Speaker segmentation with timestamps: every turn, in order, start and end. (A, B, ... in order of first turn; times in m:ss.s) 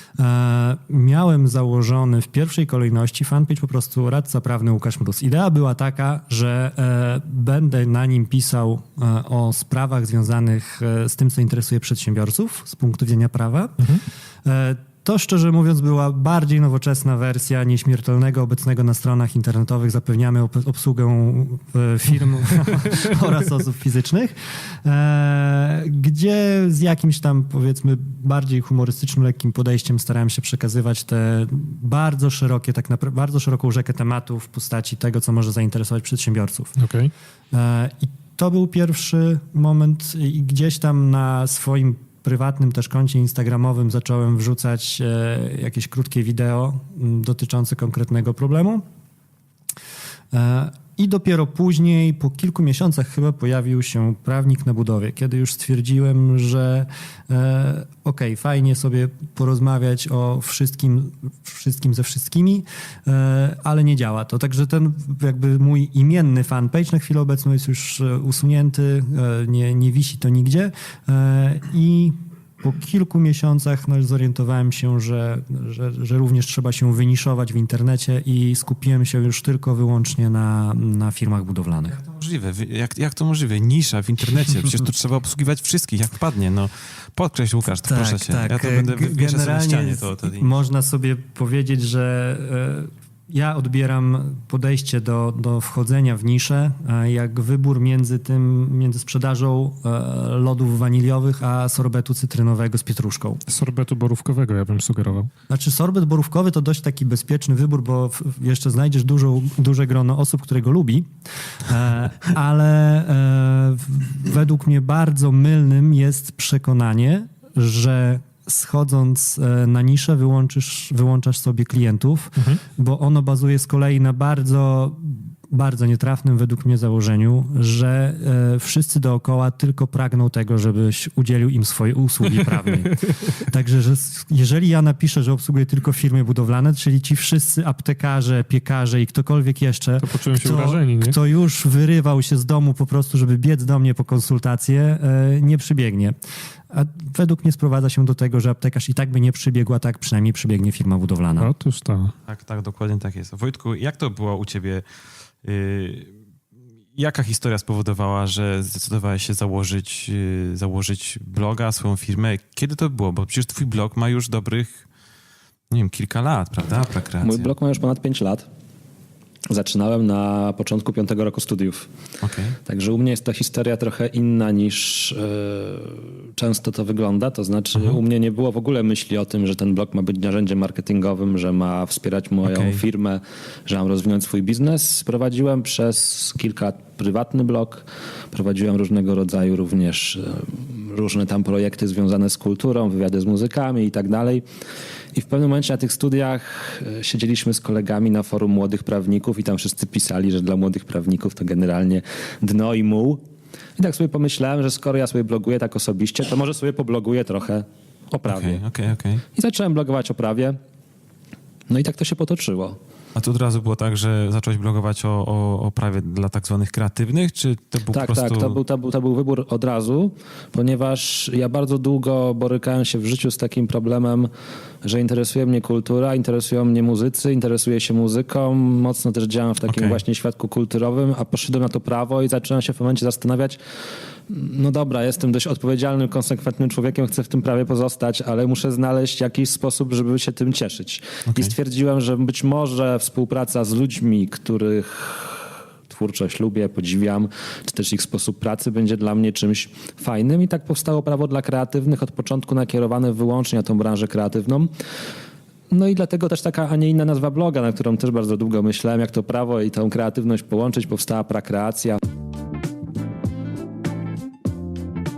0:00.2-0:13.8 A
0:14.4-0:36.7 A
0:36.8-0:37.1 B
0:37.5-0:48.8 A
0:50.3-1:22.0 A
1:22.0-1:30.5 C
1:27.8-1:43.4 A
1:43.5-1:45.3 B
1:45.5-1:51.0 A
1:51.6-2:26.2 A
2:20.0-2:21.2 B
2:26.7-2:31.5 A
2:31.4-2:32.1 B
2:32.3-2:34.8 C
2:35.4-2:36.1 C
2:36.9-2:44.8 C
2:45.7-2:47.5 C
2:47.2-2:48.4 D
2:49.5-2:51.9 D
2:52.2-2:52.6 C
2:52.6-3:14.4 D
3:02.4-3:02.8 C
3:15.1-3:23.2 D
3:23.8-3:28.6 D
3:28.3-3:29.2 C
3:29.3-3:30.6 D
3:31.7-3:32.8 D
3:33.1-3:38.6 C
3:37.9-3:44.3 D
3:44.8-3:53.6 D
3:49.6-3:50.0 C
3:54.3-4:14.7 D
4:15.7-4:22.0 D